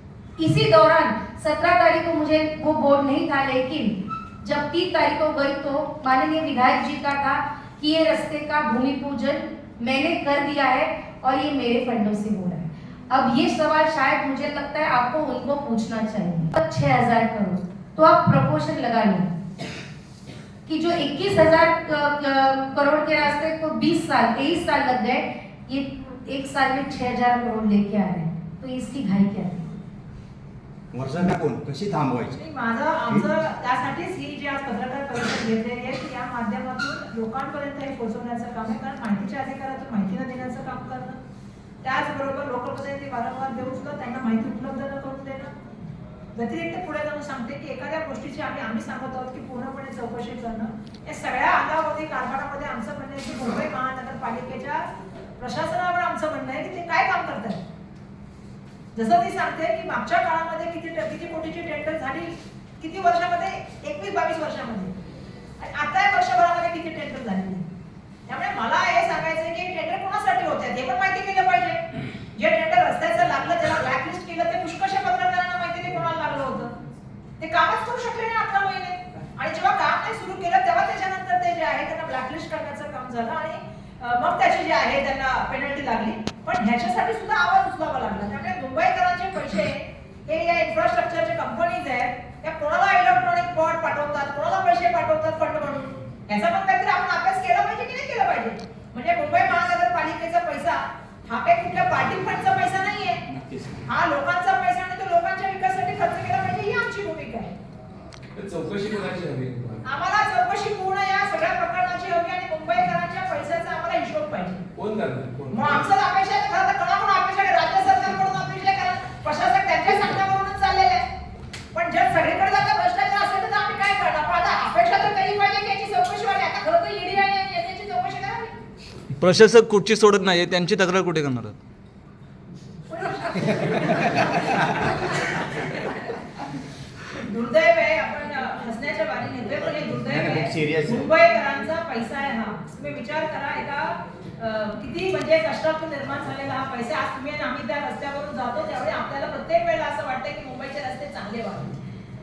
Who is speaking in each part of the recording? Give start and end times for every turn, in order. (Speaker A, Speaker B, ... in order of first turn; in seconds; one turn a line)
Speaker A: 0.4-19.3
Speaker A: 20.7-29.6
Speaker B: 30.9-32.3
Speaker C: 32.3-41.2
Speaker C: 41.8-45.5
Speaker C: 46.4-54.9
Speaker C: 55.4-57.6
Speaker C: 59.0-64.9
Speaker C: 65.6-67.6
Speaker C: 68.3-71.8
Speaker C: 72.3-76.7
Speaker C: 77.4-103.2
Speaker C: 103.9-107.5
Speaker D: 108.3-109.8
Speaker C: 109.8-114.6
Speaker D: 114.8-115.8
Speaker C: 115.5-121.0
Speaker C: 121.7-128.5
Speaker E: 129.2-131.6
Speaker C: 132.9-135.4
Speaker C: 137.1-151.8
Speaker B: 140.1-141.1